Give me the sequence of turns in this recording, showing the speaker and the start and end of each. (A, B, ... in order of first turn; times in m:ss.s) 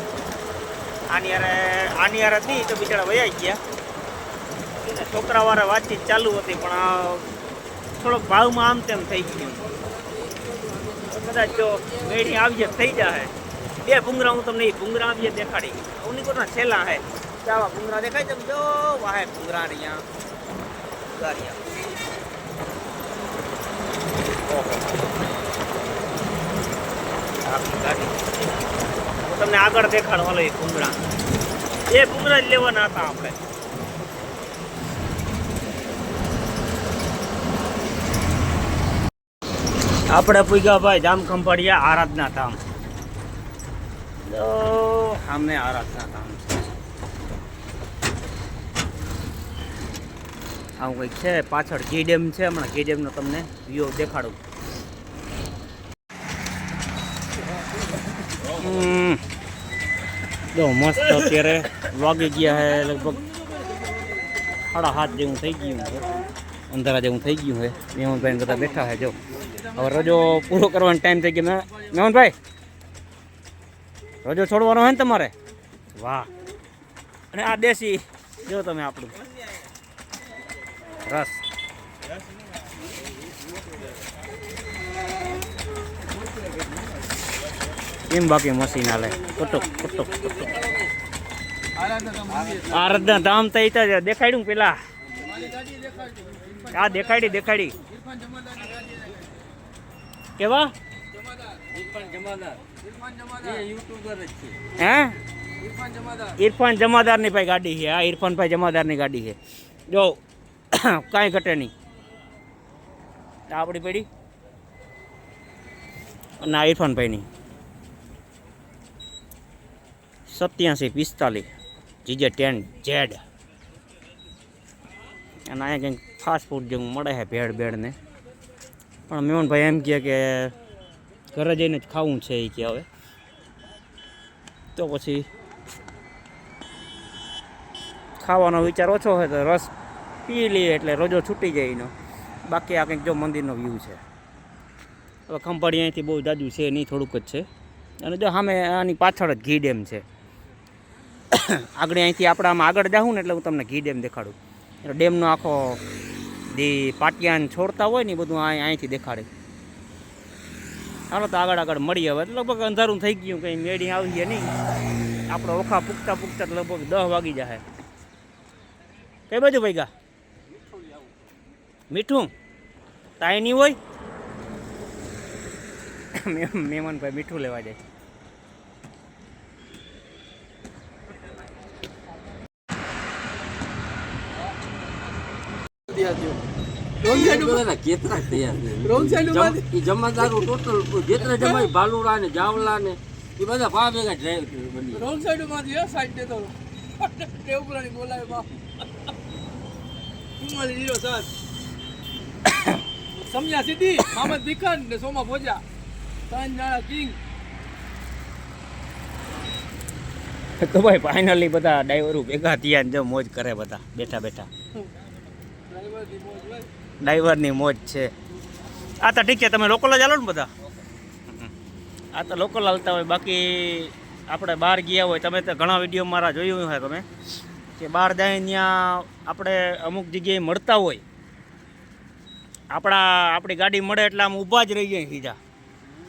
0:01.1-0:03.6 A
0:04.8-0:07.2 A
0:08.0-0:09.6 A
0:09.3-0:13.0 B
0:11.1-0:20.1 A
0:21.1-0:21.6 A
0:24.4-0:25.0 A
0:27.4-0:28.3 A
0:29.2-0:31.0 A
0:31.9-0:33.4 A
0:40.1-0:42.6 A
0:44.2-0:46.7 A
0:50.8-0:54.4 A
0:58.5-0:59.2 A
1:00.5-1:03.2 A
1:02.4-1:04.4 C
1:04.7-1:06.1 A
1:06.7-1:09.2 A
1:09.3-1:10.8 C
1:09.8-1:12.4 A
1:14.2-1:15.3 A
1:16.0-1:16.3 A
1:17.3-1:19.1 A
1:21.1-1:21.4 A
1:28.1-1:30.5 A
1:29.1-1:30.9 B
1:31.8-1:32.7 C
1:32.2-1:33.3 B
1:32.7-1:34.8 A
1:35.0-1:35.5 B
1:35.2-1:39.4 C
1:36.7-1:37.8 A
1:40.4-1:40.7 A
1:41.1-1:41.7 C
1:41.7-1:42.6 B
1:42.7-1:43.6 C
1:43.4-1:44.6 B
1:44.8-1:45.2 A
1:45.6-1:46.4 C
1:46.4-1:49.4 A
1:49.9-1:50.2 A
1:50.7-1:51.7 A
1:53.5-1:54.1 A
1:56.4-1:57.3 A
2:00.3-2:01.5 A
2:02.0-2:03.2 A
2:05.5-2:07.9 A
2:09.1-2:10.5 A
2:11.3-2:12.9 A
2:14.8-2:15.2 A
2:18.2-2:19.7 A
2:20.2-2:21.9 A
2:22.5-2:24.0 A
2:25.3-2:27.4 A
2:28.0-2:30.0 A
2:31.3-2:35.8 A
2:36.5-2:39.3 A
2:41.1-2:44.5 A
2:45.3-2:47.6 A
2:49.3-2:49.9 A
2:50.7-2:51.0 B
2:51.9-2:52.3 A
2:53.2-2:53.8 A
2:56.1-2:57.8 A
3:05.9-3:06.4 C
3:07.0-3:07.6 C
3:07.0-3:15.1 B
3:08.8-3:09.6 C
3:10.2-3:10.5 C
3:11.2-3:11.7 C
3:14.9-3:18.5 C
3:20.4-3:21.3 C
3:22.4-3:22.8 A
3:23.2-3:25.6 C
3:26.3-3:27.2 C
3:30.6-3:34.5 A
3:35.7-3:36.7 C
3:37.0-3:38.1 A
3:39.0-3:40.5 A
3:41.3-3:41.5 A
3:42.1-3:47.0 A
3:47.8-3:51.0 A
3:52.7-3:55.4 A